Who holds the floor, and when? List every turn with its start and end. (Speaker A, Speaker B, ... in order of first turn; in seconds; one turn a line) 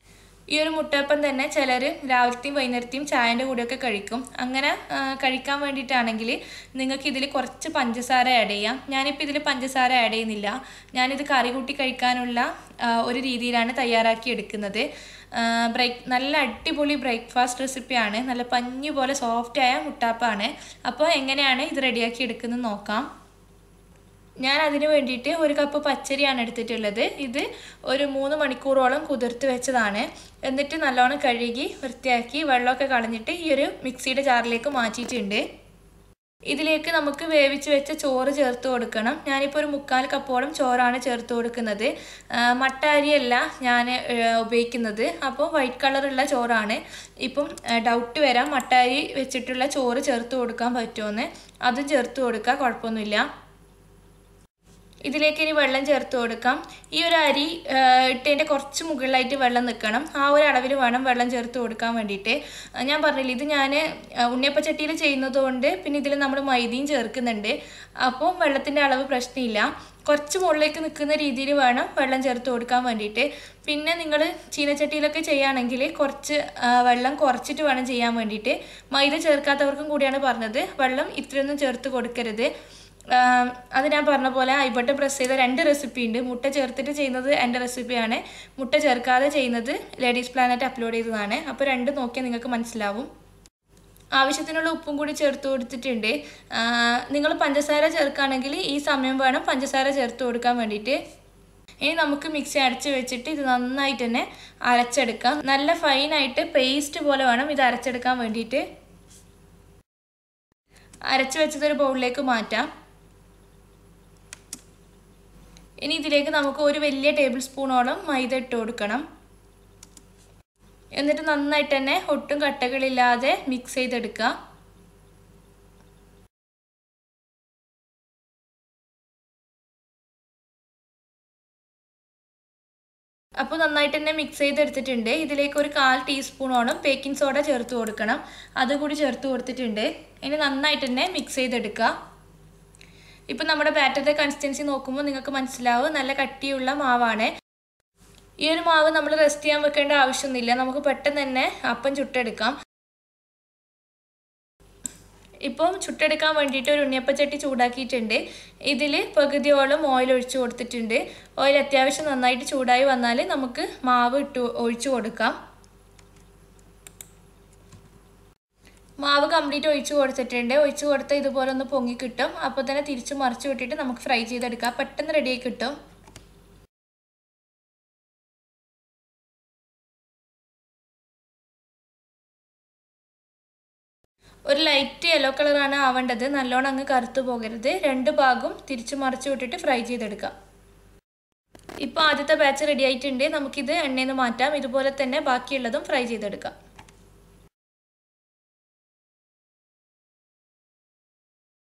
Speaker A: 0.5-23.1
Speaker A: 24.4-35.4
Speaker A: 36.5-53.3
Speaker A: 55.1-82.5
Speaker A: 83.1-93.1
Speaker A: 94.2-101.0
Speaker A: 101.8-108.6
Speaker A: 111.1-112.7
Speaker A: 115.8-119.0
Speaker A: 121.0-124.3
Speaker A: 133.4-141.9
Speaker A: 143.3-147.3
Speaker A: 148.4-152.6
Speaker A: 155.4-165.4
Speaker A: 169.0-175.8
Speaker A: 184.5-190.3
Speaker A: 191.8-196.6